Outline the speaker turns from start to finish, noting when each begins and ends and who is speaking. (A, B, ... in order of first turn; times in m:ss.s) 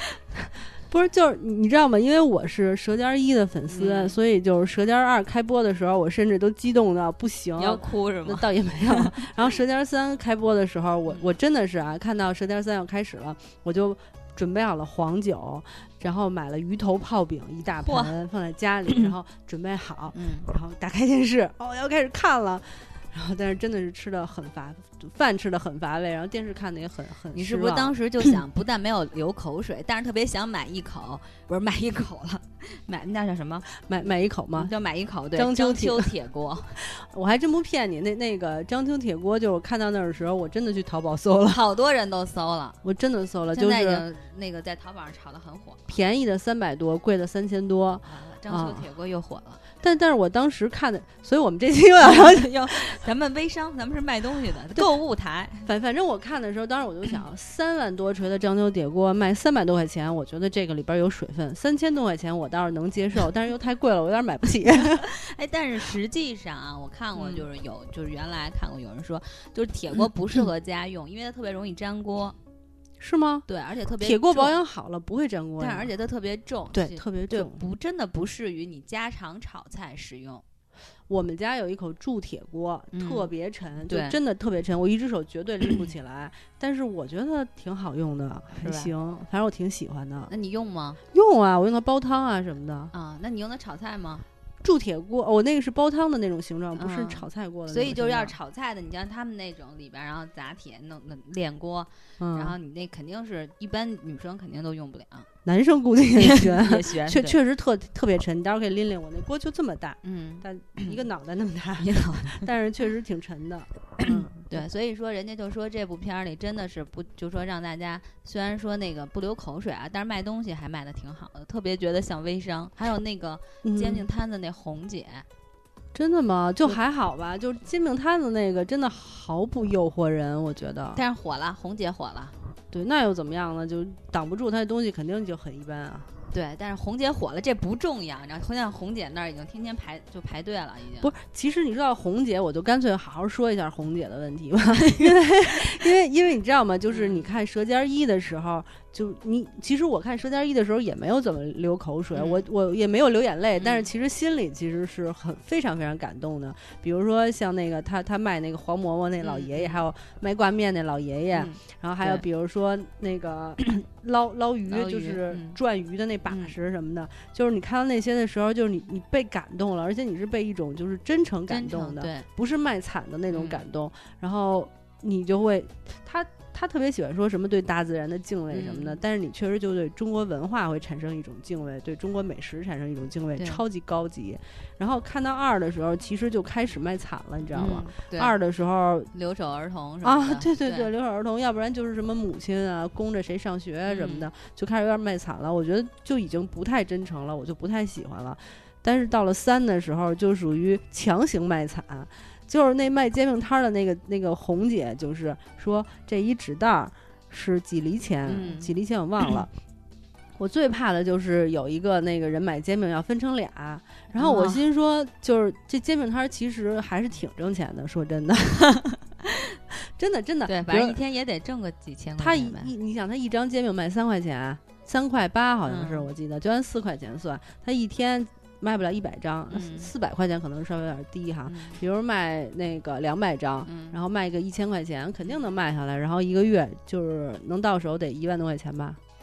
0:00.9-0:27.9 A
0:03.7-0:04.2 B
0:07.6-0:09.1 B
0:17.7-0:18.1 B
0:20.1-0:20.5 B
0:27.3-0:33.7 B
0:33.8-0:34.7 A
0:34.5-0:36.8 B
0:35.4-0:36.1 A
0:36.7-0:41.6 A
0:41.5-0:42.8 B
0:42.8-0:44.0 A
0:43.5-0:45.9 B
0:45.9-0:48.9 A
0:48.0-0:49.6 B
0:49.8-0:52.8 A
0:52.0-0:55.7 B
0:55.6-1:05.1 A
1:05.0-1:12.4 B
1:07.2-1:07.4 A
1:13.0-1:13.4 A
1:13.5-1:14.6 B
1:14.0-1:15.9 A
1:15.6-1:20.4 B
1:16.7-1:17.6 A
1:21.1-1:30.3 A
1:22.9-1:23.3 B
1:23.9-1:24.2 B
1:28.5-1:28.9 B
1:30.3-1:31.0 B
1:31.1-1:32.9 A
1:32.9-1:34.2 B
1:34.6-1:38.3 A
1:36.7-1:45.3 B
1:42.2-1:42.5 A
1:45.4-1:54.6 A
1:46.2-1:47.4 B
1:50.0-1:51.0 B
1:51.8-1:52.5 B
1:54.0-2:05.2 B
2:03.6-2:04.0 A
2:05.9-2:11.0 A
2:10.9-2:12.3 B
2:12.7-2:16.1 A
2:16.3-2:21.1 B
2:21.0-3:09.1 A
2:24.8-2:25.2 B
2:26.9-2:27.3 B
2:32.1-2:32.4 B
2:33.6-2:33.9 B
2:39.2-2:39.8 B
2:41.3-2:42.2 B
2:44.7-2:45.6 B
2:46.3-2:46.5 B
2:51.5-2:52.3 B
2:53.3-2:53.6 B
2:58.5-2:59.0 B
3:03.4-3:03.6 B
3:07.5-3:08.3 B
3:09.1-3:10.9 B
3:10.0-3:29.5 A
3:13.9-3:14.3 B
3:28.2-3:28.7 B
3:30.4-3:38.7 A
3:34.1-3:34.6 B
3:38.7-3:39.4 B
3:40.0-3:41.0 A
3:40.4-3:42.7 B
3:42.2-3:59.0 A
3:45.6-3:46.1 B
3:49.5-3:49.9 B
3:51.4-3:51.8 B
3:53.6-3:54.0 B